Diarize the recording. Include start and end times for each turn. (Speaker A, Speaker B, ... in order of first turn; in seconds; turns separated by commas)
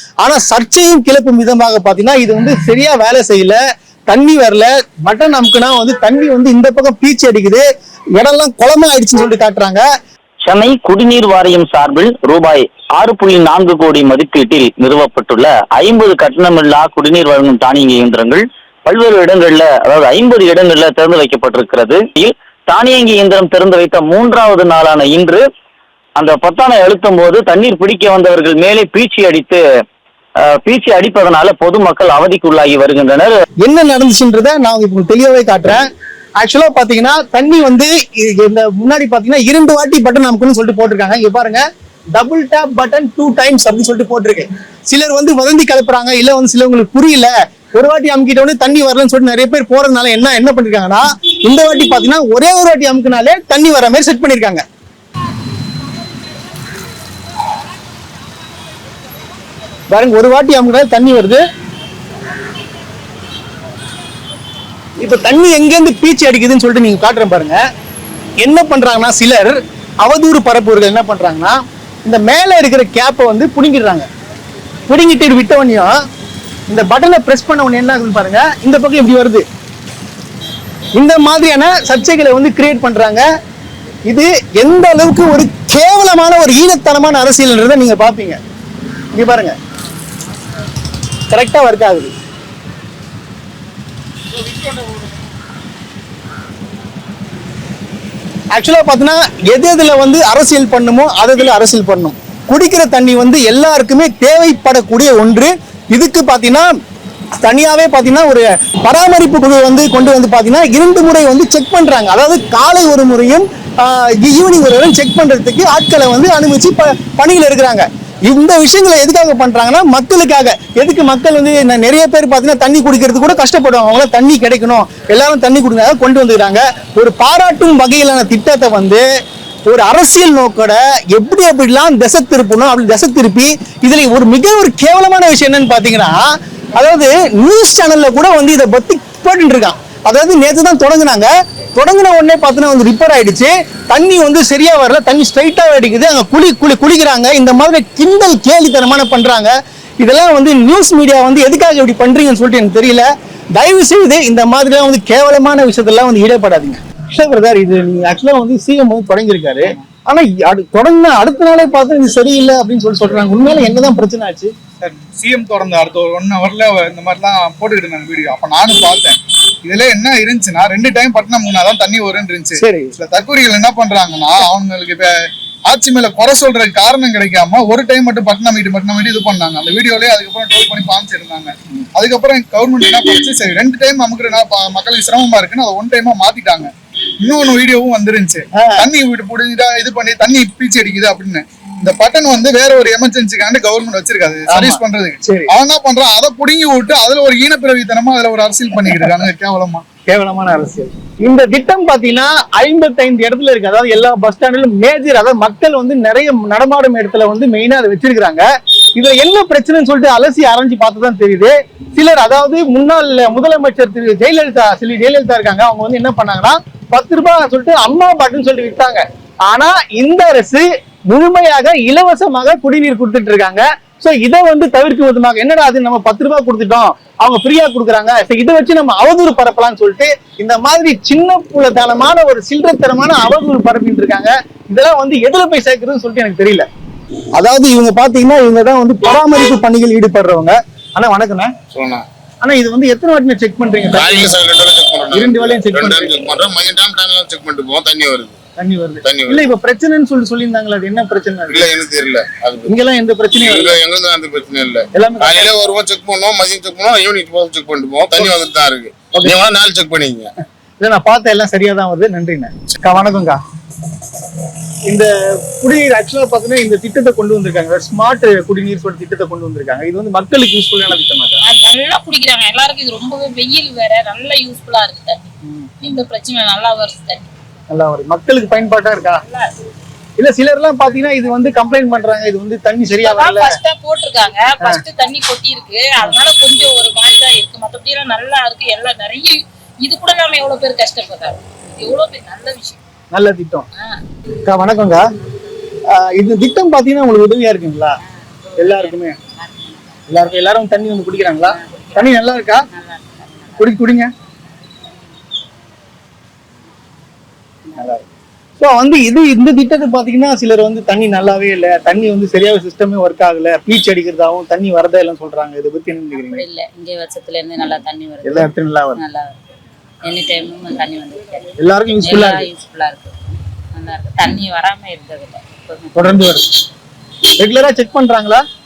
Speaker A: 0.2-7.7, Speaker A: 8.2-9.8, Speaker B: 10.5-25.4, Speaker B: 26.2-29.6, Speaker B: 30.6-33.4, Speaker A: 33.6-35.9, Speaker A: 36.4-41.6, Speaker A: 42.1-54.6, Speaker A: 59.9-61.4, Speaker A: 65.0-67.6, Speaker A: 68.4-74.1, Speaker A: 74.9-76.0, Speaker A: 76.7-79.5, Speaker A: 81.0-83.2, Speaker A: 84.1-88.4, Speaker A: 89.2-89.6, Speaker A: 91.3-92.1, Speaker A: 98.5-106.7, Speaker A: 107.4-129.0, Speaker A: 129.7-164.5, Speaker C: 164.8-199.8, Speaker A: 172.6-172.9, Speaker A: 188.6-188.9, Speaker A: 194.5-195.5, Speaker A: 200.1-208.4, Speaker A: 209.0-236.7, Speaker A: 237.4-241.5, Speaker D: 241.7-242.1, Speaker A: 242.4-244.4, Speaker D: 243.9-248.4, Speaker A: 245.1-246.2, Speaker A: 248.6-251.7, Speaker D: 249.0-249.5, Speaker D: 251.5-252.8, Speaker A: 252.7-253.8, Speaker D: 253.4-260.3, Speaker A: 254.9-255.6, Speaker A: 259.1-259.4, Speaker A: 260.8-263.4, Speaker A: 264.9-271.4, Speaker E: 271.5-275.2, Speaker F: 272.3-275.2, Speaker A: 275.5-275.7, Speaker E: 275.8-277.2, Speaker A: 277.7-279.2, Speaker A: 280.2-283.6, Speaker E: 283.0-292.8, Speaker A: 293.1-293.7, Speaker A: 294.5-295.0, Speaker A: 295.9-298.0, Speaker F: 298.2-300.2, Speaker A: 298.6-299.2, Speaker A: 300.1-302.6, Speaker F: 301.4-303.8, Speaker A: 303.6-304.1, Speaker A: 307.8-308.0, Speaker A: 308.6-316.4, Speaker F: 316.1-319.3, Speaker A: 318.2-319.0, Speaker F: 320.1-323.2, Speaker A: 321.6-322.4, Speaker F: 323.7-326.3, Speaker A: 326.0-326.5, Speaker A: 327.4-328.4